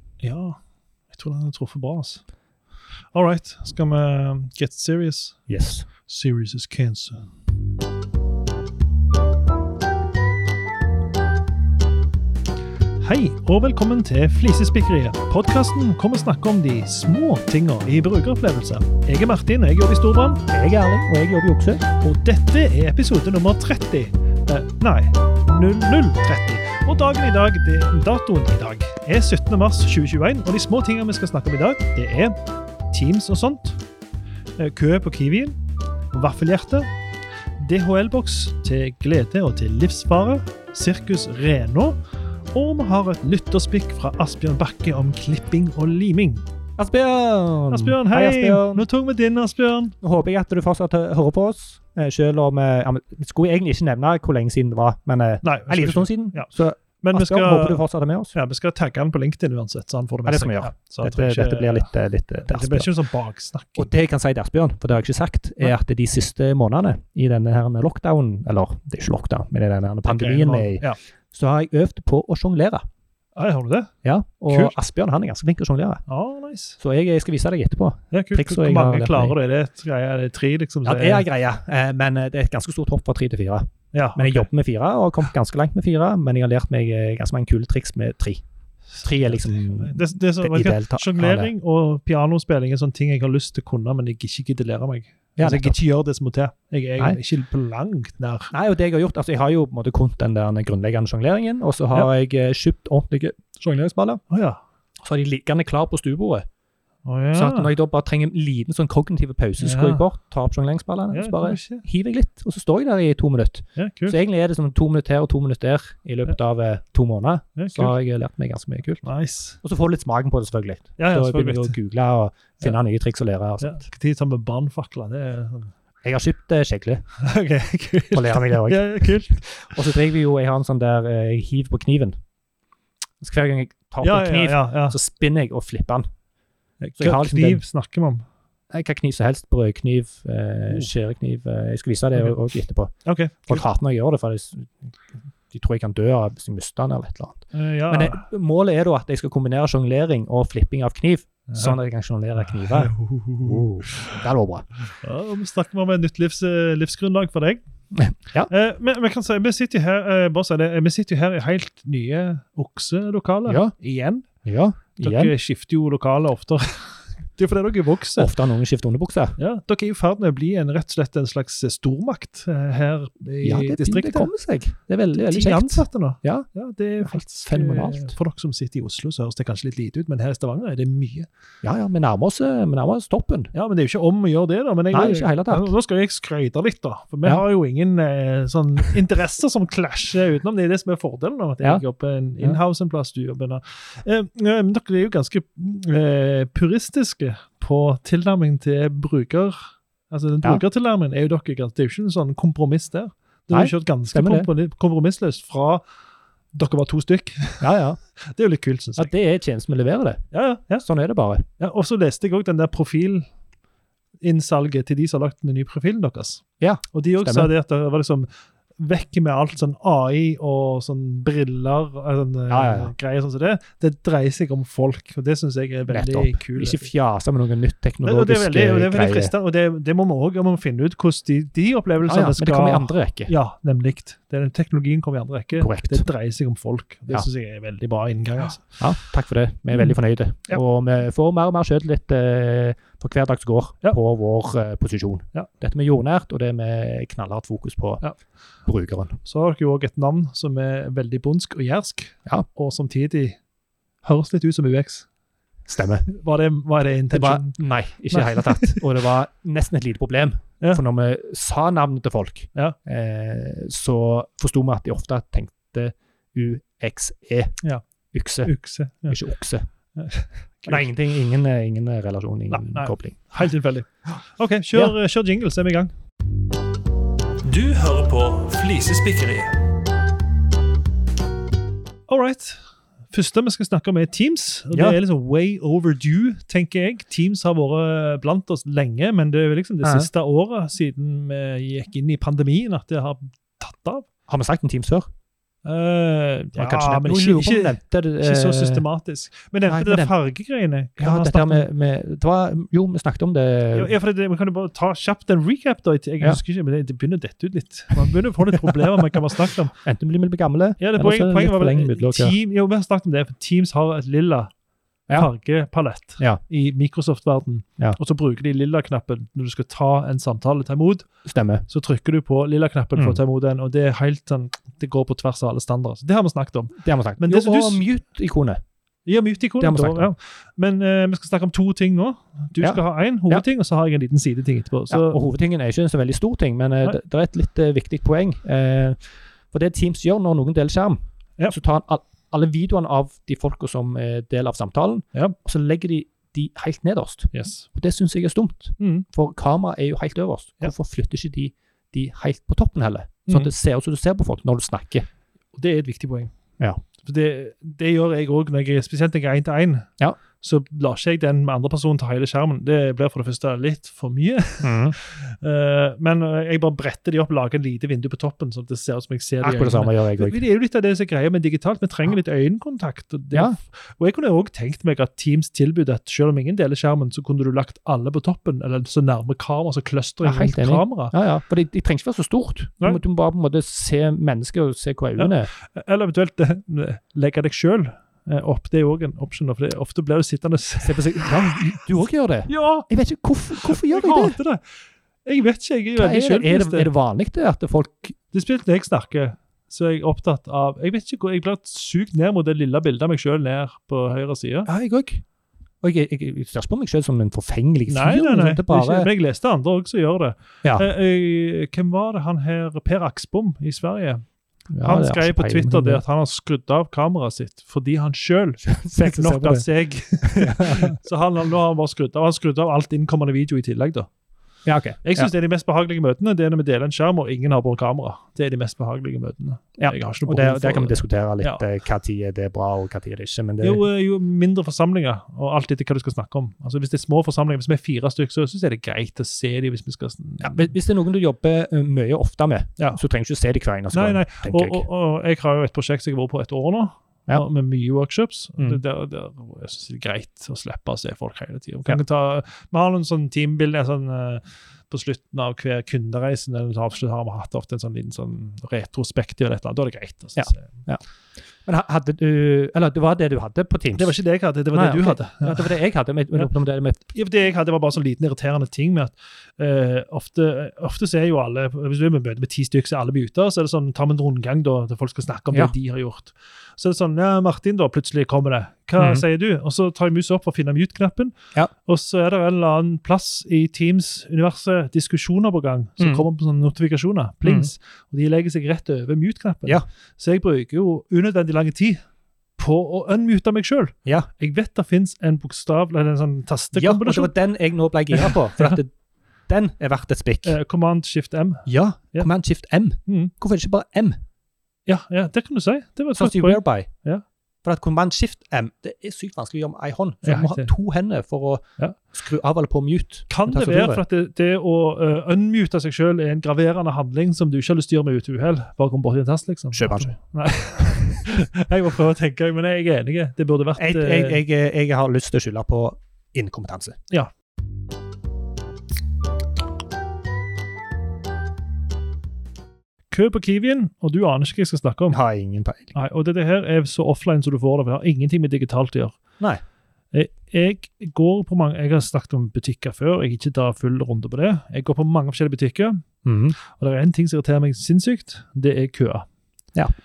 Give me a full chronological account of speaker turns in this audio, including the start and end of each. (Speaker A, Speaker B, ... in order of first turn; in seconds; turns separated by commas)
Speaker A: 0.2-2.2, Speaker A: 3.1-5.5, Speaker B: 5.5-5.9, Speaker A: 6.1-7.3, Speaker A: 13.0-20.4, Speaker B: 20.5-21.8, Speaker A: 22.0-32.4, Speaker A: 32.9-33.8, Speaker A: 34.6-35.6, Speaker A: 36.1-36.9, Speaker A: 37.6-42.0, Speaker A: 42.5-46.4, Speaker B: 46.8-48.8, Speaker A: 47.7-50.0, Speaker B: 50.0-58.3, Speaker A: 55.4-56.5, Speaker A: 57.0-57.8, Speaker A: 58.3-61.9, Speaker B: 60.3-62.9, Speaker A: 62.5-63.9, Speaker B: 63.8-72.8, Speaker A: 70.1-71.0, Speaker A: 73.4-73.9, Speaker B: 74.0-76.0, Speaker A: 76.1-76.8, Speaker B: 76.8-79.4, Speaker A: 78.1-81.2, Speaker B: 80.8-88.4, Speaker A: 83.9-84.5, Speaker A: 89.0-98.5, Speaker B: 89.0-91.5, Speaker B: 95.4-95.8, Speaker B: 98.5-104.2, Speaker A: 104.3-104.6, Speaker B: 105.0-106.5, Speaker A: 107.1-107.7, Speaker B: 107.3-119.0, Speaker A: 109.6-110.1, Speaker A: 111.1-111.8, Speaker A: 113.8-114.2, Speaker A: 117.6-117.9, Speaker A: 119.0-119.6, Speaker B: 119.6-123.8, Speaker A: 121.0-121.8, Speaker A: 123.6-125.7, Speaker B: 126.0-127.0, Speaker A: 127.2-129.8, Speaker B: 128.1-132.2, Speaker B: 133.2-136.1, Speaker A: 134.0-135.0, Speaker A: 136.8-138.2, Speaker B: 137.0-137.6, Speaker B: 138.7-142.9, Speaker A: 143.1-143.6, Speaker B: 143.5-144.7, Speaker B: 145.5-154.7, Speaker A: 147.5-148.3, Speaker A: 151.5-151.8, Speaker A: 152.5-154.2, Speaker A: 155.0-157.6, Speaker B: 157.9-158.5, Speaker A: 158.5-164.3, Speaker B: 163.5-163.7, Speaker B: 164.4-165.3, Speaker A: 165.0-168.3, Speaker B: 168.2-169.4, Speaker A: 169.4-174.3, Speaker B: 173.4-176.5, Speaker A: 175.1-181.3, Speaker B: 177.0-178.2, Speaker B: 181.6-183.5, Speaker A: 183.5-205.8, Speaker B: 184.9-185.7, Speaker B: 203.5-204.5, Speaker A: 206.5-209.1, Speaker B: 207.6-208.0, Speaker B: 209.0-210.2, Speaker A: 210.3-210.8, Speaker B: 210.8-211.5, Speaker A: 211.6-213.3, Speaker A: 214.2-226.9, Speaker B: 216.6-217.5, Speaker B: 222.5-222.9, Speaker B: 225.9-229.3, Speaker A: 228.0-238.8, Speaker B: 232.1-233.3, Speaker B: 235.6-236.1, Speaker B: 238.8-248.0, Speaker B: 248.7-249.2, Speaker A: 249.2-253.4, Speaker A: 254.0-255.1, Speaker B: 255.7-256.1, Speaker A: 256.1-257.6, Speaker B: 257.1-267.6, Speaker A: 258.1-258.8, Speaker B: 268.1-268.5, Speaker A: 268.4-269.2, Speaker B: 269.1-269.6, Speaker A: 270.0-270.9, Speaker B: 270.6-273.2, Speaker A: 272.5-275.9, Speaker A: 277.4-279.5, Speaker A: 282.1-282.6, Speaker A: 283.1-294.1, Speaker B: 284.7-285.0, Speaker B: 289.8-290.1, Speaker B: 294.3-295.1, Speaker A: 295.6-301.7, Speaker B: 296.6-298.8, Speaker B: 299.7-300.1, Speaker B: 301.0-303.9, Speaker A: 303.7-309.7, Speaker B: 308.8-309.0, Speaker B: 309.8-312.4, Speaker A: 310.8-314.5, Speaker A: 315.1-321.1, Speaker B: 321.2-321.6, Speaker A: 321.7-327.9, Speaker B: 326.8-328.6, Speaker A: 329.1-335.2, Speaker B: 329.6-330.1, Speaker B: 332.6-333.4, Speaker B: 334.9-339.0, Speaker B: 339.5-355.1, Speaker A: 347.3-347.7, Speaker A: 348.8-349.1, Speaker A: 355.5-356.3, Speaker A: 357.0-359.9, Speaker A: 360.4-381.1, Speaker B: 364.6-365.0, Speaker B: 369.4-370.4, Speaker B: 380.2-385.5, Speaker A: 385.2-391.8, Speaker B: 390.8-394.4, Speaker A: 392.5-392.9, Speaker A: 393.5-394.6, Speaker A: 395.2-396.9, Speaker B: 396.0-398.2, Speaker A: 398.3-404.7, Speaker B: 404.7-405.2, Speaker B: 405.8-409.1, Speaker A: 407.9-414.2, Speaker B: 414.7-416.0, Speaker A: 414.8-424.1, Speaker B: 418.6-419.6, Speaker B: 420.2-421.0, Speaker B: 424.6-425.3, Speaker A: 425.0-431.6, Speaker B: 429.8-433.8, Speaker A: 433.6-440.7, Speaker B: 440.4-444.9, Speaker A: 443.9-460.7, Speaker B: 460.4-461.0, Speaker B: 461.7-464.1, Speaker A: 463.9-465.7, Speaker B: 464.7-467.1, Speaker A: 467.1-481.3, Speaker B: 479.0-479.2, Speaker A: 481.9-492.0, Speaker B: 486.0-486.2, Speaker B: 487.4-487.7, Speaker A: 492.6-497.4, Speaker B: 496.8-498.9, Speaker A: 498.1-498.8, Speaker B: 499.5-500.6, Speaker A: 500.4-502.3, Speaker B: 501.7-504.2, Speaker A: 503.1-503.3, Speaker A: 504.9-507.2, Speaker B: 506.1-506.9, Speaker B: 507.6-514.0, Speaker A: 510.2-510.7, Speaker A: 513.3-524.4, Speaker B: 519.7-520.2, Speaker B: 523.8-527.0, Speaker A: 533.1-535.2, Speaker B: 535.1-535.9, Speaker A: 535.9-539.2, Speaker A: 540.1-546.0, Speaker B: 546.2-546.6, Speaker A: 546.6-549.3